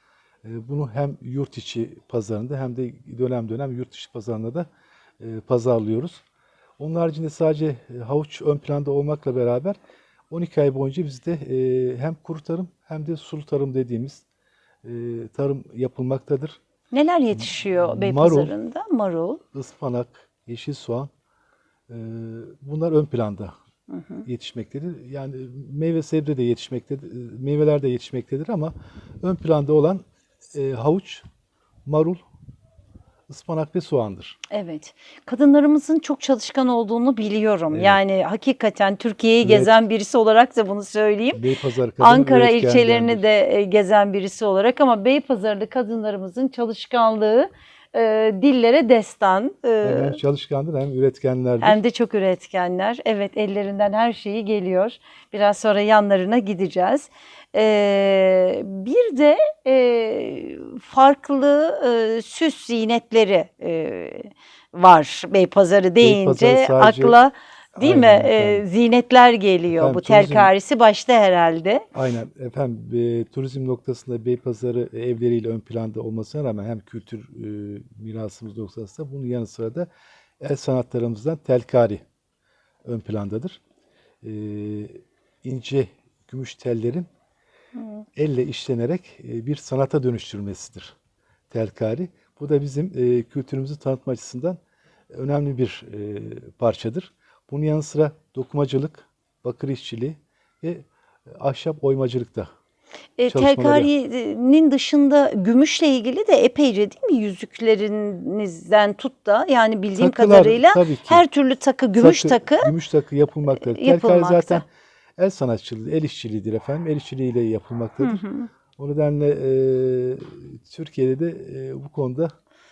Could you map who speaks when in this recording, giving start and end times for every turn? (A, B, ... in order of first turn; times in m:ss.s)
0:00.4-0:04.7 A
0:05.2-0:06.2 A
0:06.8-0:09.8 A
0:10.3-0:14.2 A
0:14.8-0:16.6 A
0:16.9-0:19.4 B
0:17.4-0:18.5 A
0:19.5-0:21.1 A
0:21.9-0:23.5 A
0:23.9-0:24.2 B
0:24.2-0:30.0 A
0:30.6-0:31.2 A
0:31.9-0:32.2 A
0:33.3-0:34.4 A
0:34.5-0:41.4 B
0:37.7-0:38.0 A
0:39.4-0:39.8 A
0:41.3-0:43.2 A
0:42.0-0:50.2 B
0:49.8-0:51.8 A
0:51.6-1:11.9 B
1:06.0-1:07.2 A
1:07.8-1:08.7 A
1:09.7-1:10.5 A
1:11.9-1:19.9 A
1:20.4-1:22.0 A
1:22.8-1:23.6 A
1:24.2-1:27.1 A
1:27.8-1:28.0 B
1:28.2-1:31.0 A
1:31.5-1:34.6 A
1:35.1-1:42.5 A
1:43.2-1:52.7 B
1:43.3-1:43.9 A
1:50.0-1:51.2 A
1:52.0-1:54.7 A
1:53.5-1:54.6 B
1:55.2-1:58.2 A
1:58.0-1:58.5 B
1:58.8-2:02.3 A